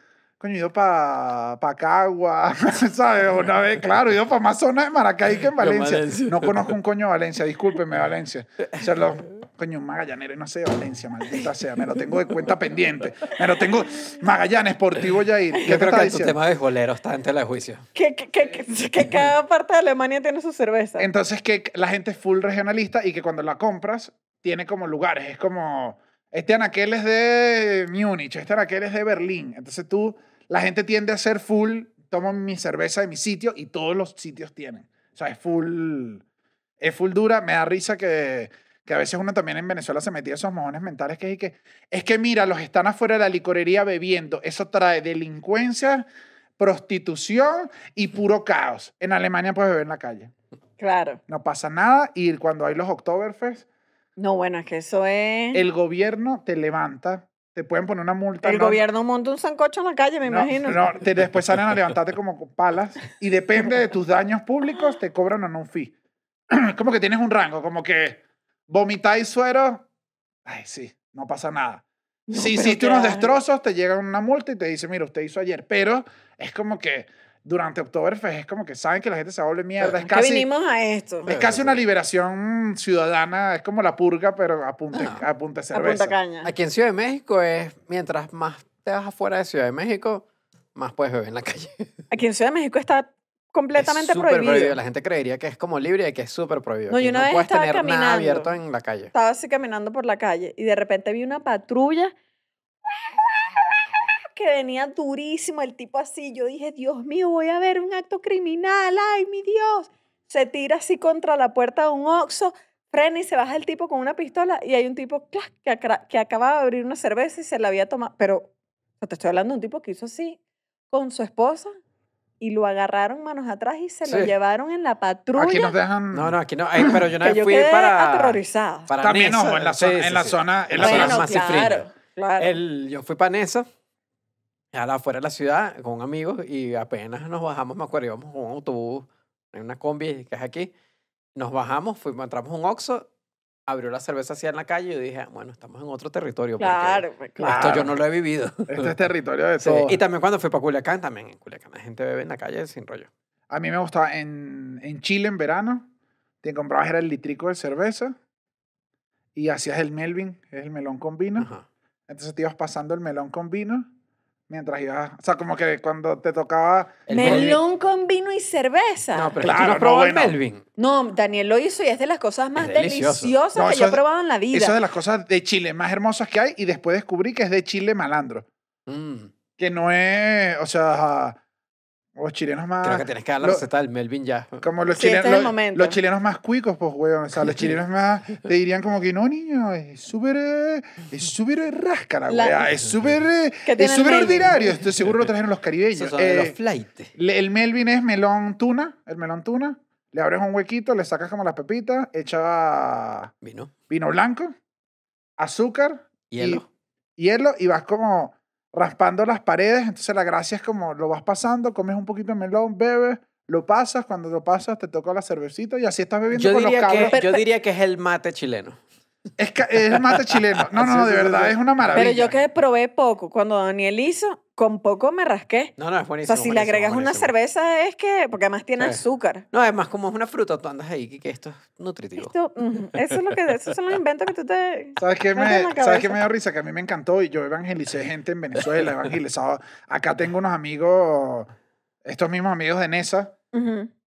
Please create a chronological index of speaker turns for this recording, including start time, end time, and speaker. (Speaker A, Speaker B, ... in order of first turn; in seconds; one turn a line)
Speaker A: 0.4-16.4
Speaker B: 5.6-6.7
Speaker B: 15.6-17.8
Speaker C: 17.9-21.1
Speaker A: 21.0-36.2
Speaker A: 36.8-46.0
Speaker A: 46.6-50.3
Speaker C: 50.8-51.2
Speaker A: 51.3-53.6
Speaker C: 54.2-55.6
Speaker A: 55.5-58.8
Speaker C: 58.4-60.8
Speaker A: 60.2-65.9
Speaker A: 66.5-69.8
Speaker A: 70.5-80.5
Speaker C: 72.3-73.3
Speaker C: 80.0-81.3
Speaker A: 81.2-86.2
Speaker B: 81.3-81.8
Speaker B: 84.9-85.2
Speaker C: 85.7-86.5
Speaker B: 86.4-92.0
Speaker C: 92.1-94.8
Speaker B: 93.8-99.1
Speaker C: 96.9-98.5
Speaker C: 99.1-102.1
Speaker C: 102.9-120.4
Speaker C: 120.9-121.7
Speaker C: 122.4-125.7
Speaker B: 124.0-124.3
Speaker A: 125.3-126.8
Speaker B: 126.1-131.9
Speaker C: 127.2-128.9
Speaker A: 129.0-131.4
Speaker C: 130.8-132.5
Speaker B: 132.4-133.7
Speaker B: 134.7-140.7
Speaker B: 141.3-143.1
Speaker B: 143.7-148.9
Speaker C: 146.6-147.6
Speaker A: 147.4-147.9
Speaker A: 148.7-150.0
Speaker B: 149.6-153.1
Speaker A: 153.5-155.9
Speaker A: 156.4-158.2
Speaker A: 159.3-161.5
Speaker B: 161.4-161.7
Speaker A: 162.1-163.9
Speaker A: 164.5-167.6
Speaker B: 167.1-167.6
Speaker C: 167.1-169.3
Speaker B: 169.1-170.6
Speaker A: 169.4-170.3
Speaker C: 170.8-174.8
Speaker B: 172.6-173.3
Speaker A: 173.5-178.4
Speaker B: 178.9-179.3
Speaker A: 179.6-181.4
Speaker A: 182.2-183.6
Speaker B: 182.8-184.7
Speaker A: 184.6-196.6
Speaker C: 185.0-186.0
Speaker C: 192.3-192.7
Speaker C: 193.7-194.5
Speaker B: 195.9-197.1
Speaker A: 197.2-203.3
Speaker B: 203.4-203.7
Speaker A: 203.9-204.5
Speaker A: 205.4-206.6
Speaker B: 206.3-206.7
Speaker A: 207.2-217.1
Speaker B: 216.3-218.8
Speaker C: 217.1-217.4
Speaker A: 219.4-222.3
Speaker B: 220.6-222.1
Speaker C: 221.9-225.7
Speaker B: 225.8-227.3
Speaker C: 226.2-229.4
Speaker B: 229.5-232.3
Speaker C: 232.2-236.2
Speaker B: 232.9-233.3
Speaker A: 235.0-241.5
Speaker A: 242.0-243.3
Speaker C: 243.5-243.9